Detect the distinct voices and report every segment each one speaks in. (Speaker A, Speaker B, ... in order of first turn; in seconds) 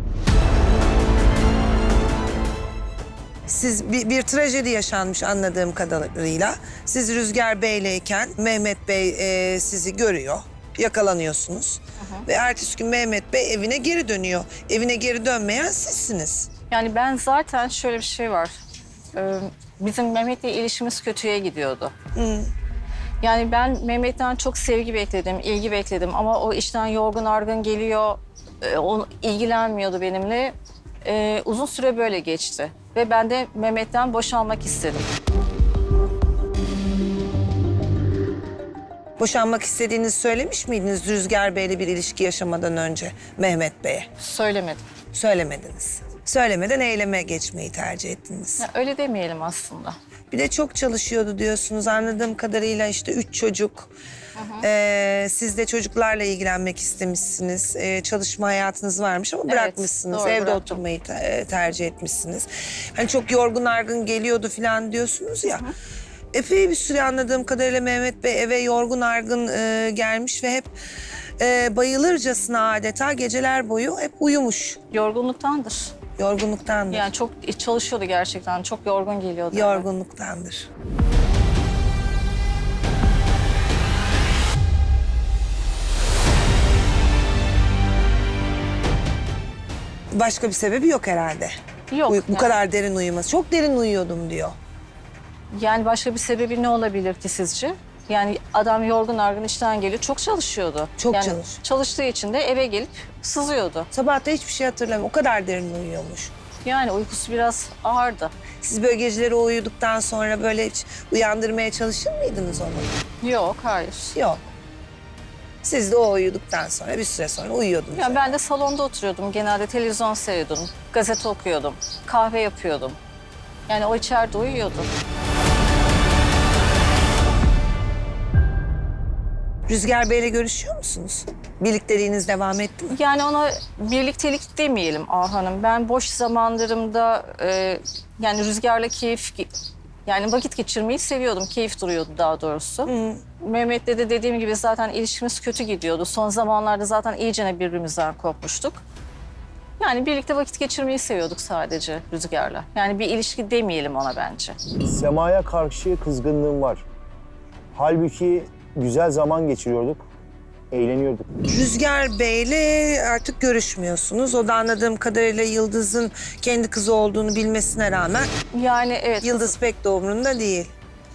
Speaker A: 3.5-16.5, 22.1-22.5, 39.2-44.1, 45.1-48.6, 50.3-53.9, 54.6-65.7, 66.3-70.7, 71.4-74.8, 76.2-77.1, 79.5-80.7, 90.1-91.5, 92.1-94.5, 101.0-101.6, 103.9-106.3, 108.6-112.9, 114.1-114.5, 115.6-118.4, 129.7-132.9, 142.8-143.2, 161.4-168.3, 169.2-170.7
Speaker B: 12.0-12.2, 16.7-18.5, 19.1-21.9, 23.2-35.1, 44.2-44.8, 48.6-50.0, 54.4-54.6, 59.5-60.8, 65.5-65.7, 74.9-75.9, 76.9-79.9, 91.9-92.5, 95.5-103.9, 106.6-108.3, 113.2-114.1, 117.9-123.0, 123.7-124.9, 132.9-139.5, 140.1-148.8, 149.8-154.6, 168.5-169.5
Speaker C: 154.9-156.8, 157.7-160.0, 160.7-161.3